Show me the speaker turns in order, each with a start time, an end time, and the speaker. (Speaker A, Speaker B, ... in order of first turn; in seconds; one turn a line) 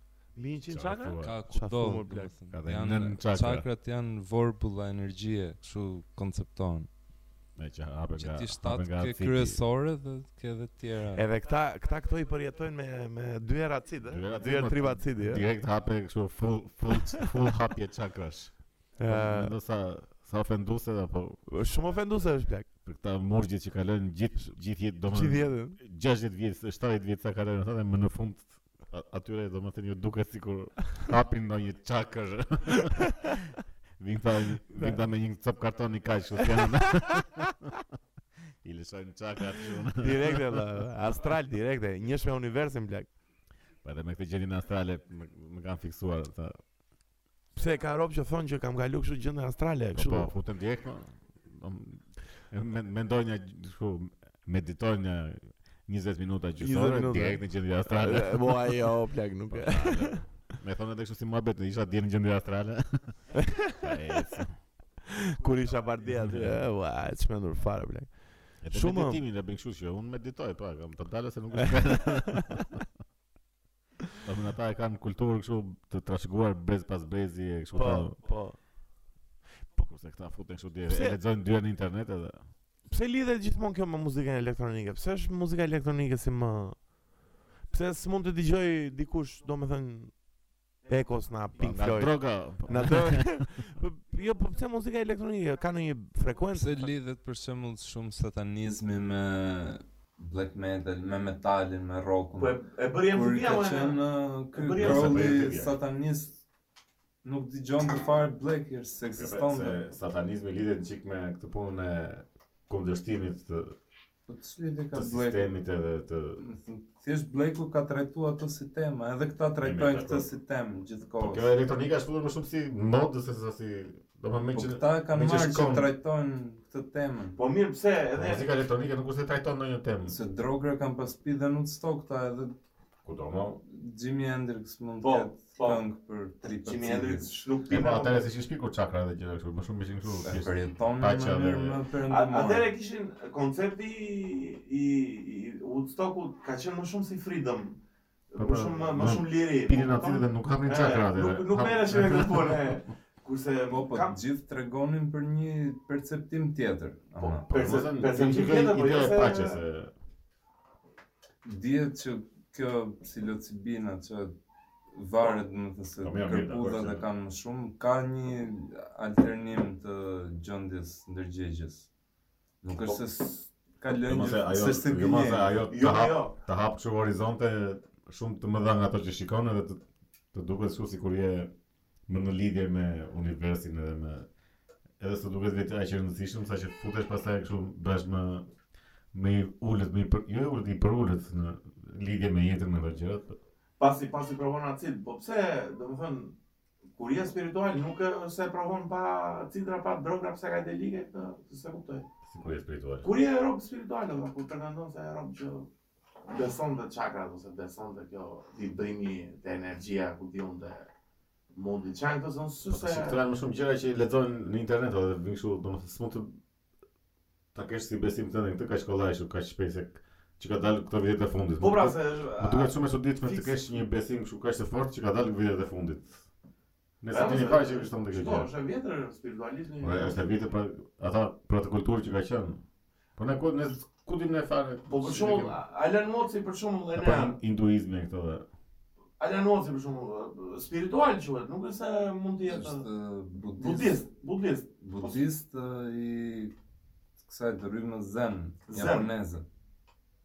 Speaker A: 0.3-2.3
Speaker B: 0.7-1.4
Speaker C: 1.1-6.9
Speaker B: 2.5-3.7
Speaker B: 7.6-9.6
Speaker C: 8.2-11.2
Speaker A: 11.2-15.4
Speaker B: 14.1-21.5
Speaker A: 19.0-19.5
Speaker A: 21.5-22.7
Speaker B: 22.9-33.5
Speaker A: 25.1-25.8
Speaker B: 34.0-37.6
Speaker A: 34.7-35.0
Speaker B: 38.6-40.6
Speaker A: 40.0-43.1
Speaker B: 43.8-46.6
Speaker A: 47.5-50.3
Speaker B: 50.0-58.8
Speaker A: 56.6-60.4
Speaker B: 59.5-64.6
Speaker A: 63.4-63.9
Speaker A: 65.1-69.2
Speaker B: 66.2-66.6
Speaker B: 68.6-72.7
Speaker A: 71.6-72.5
Speaker B: 74.2-78.2
Speaker A: 77.7-78.6
Speaker B: 79.8-82.4
Speaker A: 80.9-81.2
Speaker A: 82.9-86.9
Speaker A: 87.7-90.2
Speaker A: 90.8-96.9
Speaker B: 91.6-93.4
Speaker C: 96.5-102.6
Speaker A: 102.4-104.0
Speaker C: 103.1-106.4
Speaker A: 104.5-105.3
Speaker B: 104.8-105.8
Speaker C: 107.2-109.8
Speaker B: 109.2-113.7
Speaker C: 114.3-115.5
Speaker B: 114.9-116.4
Speaker C: 116.4-121.5
Speaker B: 119.6-120.3
Speaker B: 121.2-125.9
Speaker C: 124.5-127.4
Speaker A: 127.4-128.5
Speaker B: 128.2-130.2
Speaker C: 130.1-132.5
Speaker B: 133.1-133.6
Speaker C: 133.7-137.4
Speaker A: 135.0-135.8
Speaker A: 136.4-138.2
Speaker B: 137.7-141.8
Speaker C: 140.2-142.7
Speaker A: 142.1-147.8
Speaker A: 148.3-154.2
Speaker B: 148.4-152.7
Speaker C: 153.7-157.5
Speaker A: 157.2-159.6
Speaker B: 157.5-159.9
Speaker C: 161.4-164.3
Speaker C: 164.9-171.9
Speaker B: 166.0-167.1
Speaker C: 172.6-175.6
Speaker B: 174.0-179.8
Speaker A: 175.7-176.3
Speaker B: 180.3-181.5
Speaker B: 182.1-184.3
Speaker B: 185.0-188.5
Speaker B: 189.1-193.4
Speaker A: 193.8-196.3
Speaker A: 196.9-202.1
Speaker B: 202.3-203.1
Speaker A: 203.0-205.7
Speaker A: 206.3-210.9
Speaker A: 211.5-213.2
Speaker B: 212.7-216.4
Speaker B: 217.5-226.2
Speaker A: 221.6-223.8
Speaker B: 227.0-228.5
Speaker A: 227.1-230.2
Speaker B: 229.8-232.6
Speaker B: 233.2-235.6
Speaker A: 234.9-237.4
Speaker B: 236.9-238.4
Speaker A: 239.2-242.8
Speaker C: 242.5-244.0
Speaker A: 243.6-245.2
Speaker C: 244.8-246.5
Speaker C: 247.2-249.4
Speaker A: 248.7-249.1